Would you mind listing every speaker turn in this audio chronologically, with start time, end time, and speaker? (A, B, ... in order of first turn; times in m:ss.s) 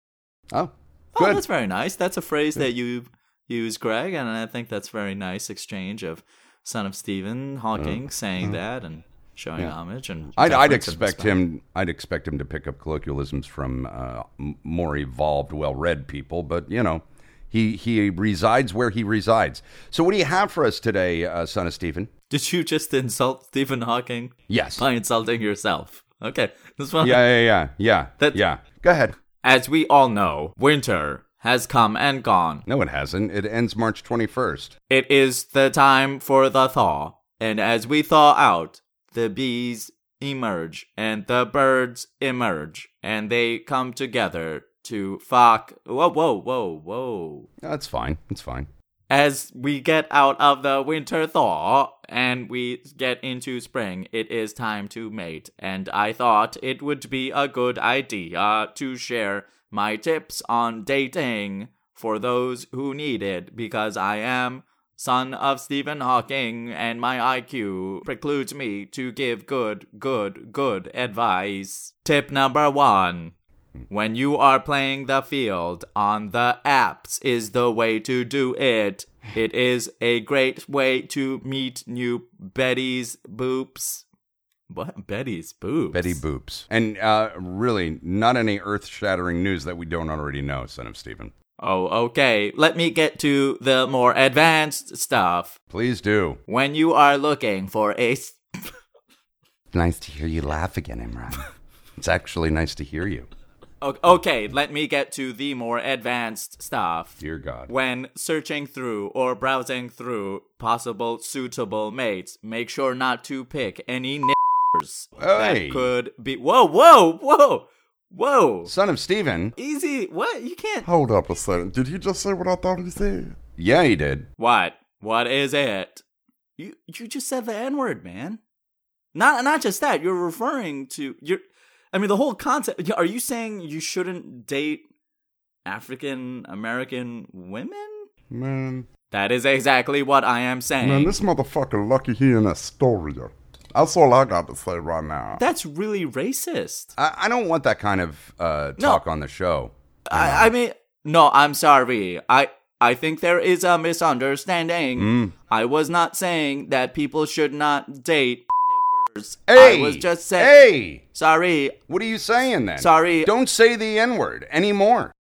0:00.5-0:01.4 A
0:01.1-0:11.4 B
0:10.4-0:22.1 A
0:22.3-0:27.3 B
0:24.5-0:24.8 A
0:27.0-0:29.1 A
0:29.4-0:32.6 B
0:32.6-0:34.7 A
0:34.9-0:47.5 B
0:47.6-0:48.7 A
0:49.1-1:13.3 B
1:13.9-1:24.0 B
1:24.7-1:26.2 B
1:25.9-1:31.3 A
1:31.6-1:35.6 B
1:35.7-1:36.4 A
1:36.5-1:38.7 B
1:39.7-1:41.4 A
1:42.0-1:43.3 A
1:43.8-1:58.7 B
1:47.2-1:47.7 A
1:55.2-1:55.9 A
1:58.6-1:59.5 A
1:59.6-2:00.9 B
2:00.8-2:03.4 C
2:03.6-2:04.3 A
2:04.4-2:06.0 B
2:06.6-2:08.4 B
2:09.1-2:11.4 B
2:11.9-2:14.8 B
2:15.6-2:18.1 B
2:18.3-2:18.9 C
2:19.1-2:21.1 B
2:20.8-2:25.4 C
2:25.4-2:26.9 B
2:27.0-2:30.5 A
2:30.1-2:41.8 B
2:35.0-2:35.3 A
2:39.5-2:41.0 A
2:41.9-2:45.1 A
2:42.8-2:43.3 B